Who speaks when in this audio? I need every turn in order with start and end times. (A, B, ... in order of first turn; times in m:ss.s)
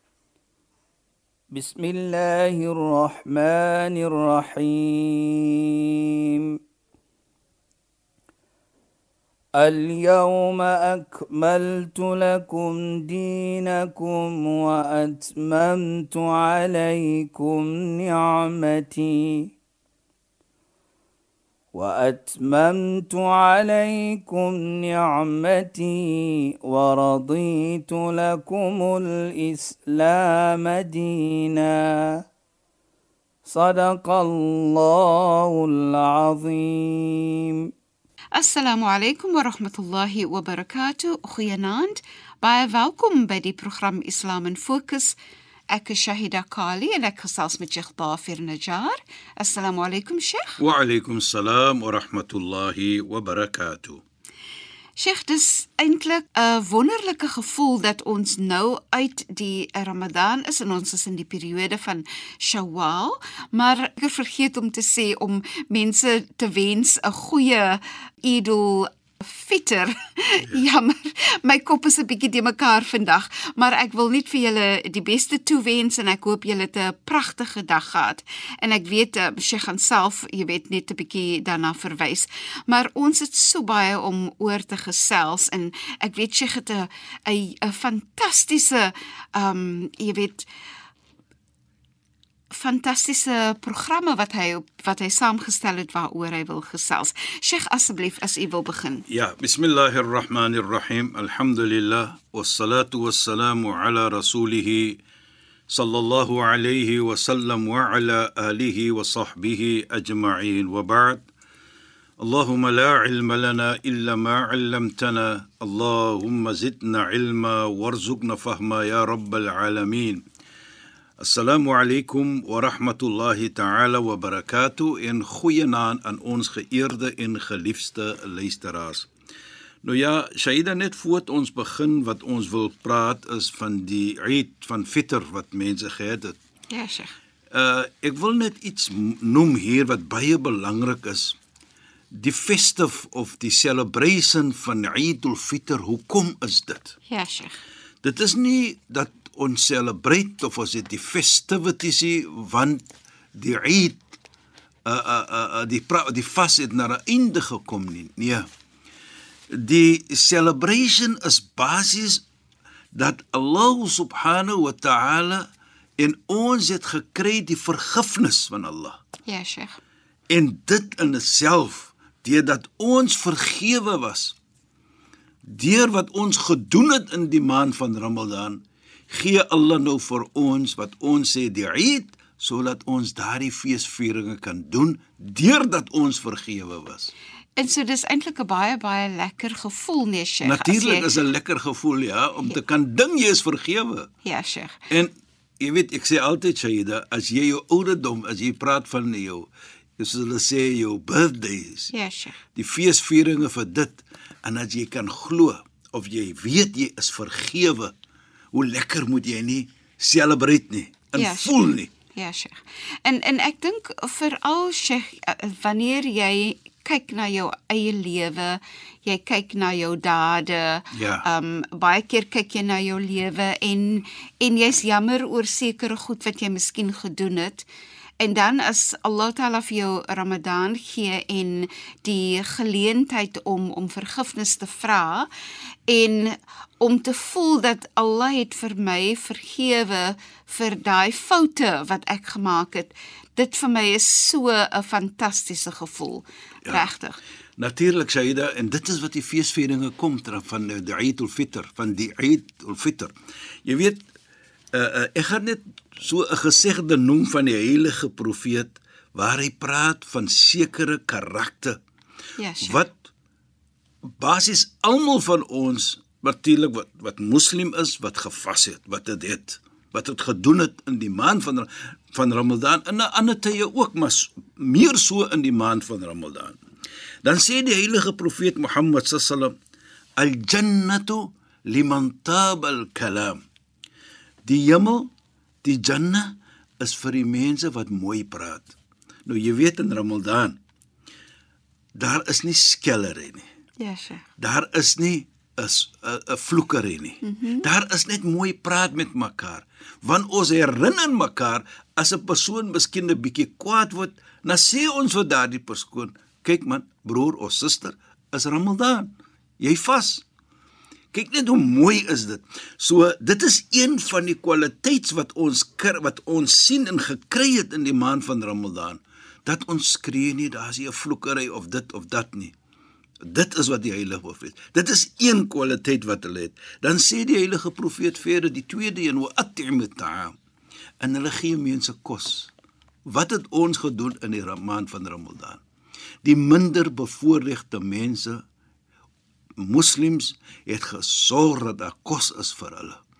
0:01.5-0:06.6 A
0:09.6-0:19.5 A
0:21.7-0:32.2 A
0:33.4-0:37.7 A
0:38.3-0:45.2 B
0:45.7-0:50.6 B
0:50.6-0:54.0 C
0:55.0-1:30.5 B
1:32.5-1:39.0 B
1:39.1-1:45.0 C
1:45.7-1:51.2 C
1:52.2-2:00.2 C
2:01.2-2:09.1 C
2:09.8-2:16.4 C
2:16.7-2:17.1 B
2:17.5-2:21.4 C
2:22.1-2:27.0 C
2:27.1-2:27.6 B
2:28.0-2:32.8 C
2:33.3-2:34.0 C
2:34.8-2:38.5 C
2:39.5-2:42.2 C
2:42.9-2:45.4 C
2:46.0-2:49.0 C
2:49.3-2:49.8 B
2:50.3-2:54.4 C
2:55.4-3:07.1 C
3:07.6-3:11.1 B
3:10.4-3:14.1 C
3:14.2-3:14.8 B
3:14.9-3:21.9 C
3:21.9-3:22.4 B
3:22.5-3:27.9 C
3:28.5-3:31.9 C
3:31.2-3:47.7 B
3:40.9-3:41.2 C
3:48.2-3:55.3 B
3:55.9-4:07.2 B
4:07.6-4:13.1 C
4:13.6-4:14.0 C
4:14.7-4:21.8 C
4:22.4-4:22.8 B
4:22.6-4:23.1 C
4:24.2-4:36.6 C
4:37.2-4:39.5 C
4:40.2-4:43.4 C
4:44.4-4:45.1 C
4:45.6-4:48.7 C
4:49.2-4:50.6 C
4:51.9-4:53.5 C
4:53.8-4:54.2 B
4:54.4-5:10.2 C
4:57.2-4:57.6 B
5:11.1-5:22.5 C
5:23.2-5:30.3 C
5:31.0-5:32.5 C
5:33.0-5:35.6 C
5:36.2-5:38.4 C
5:39.6-5:43.0 C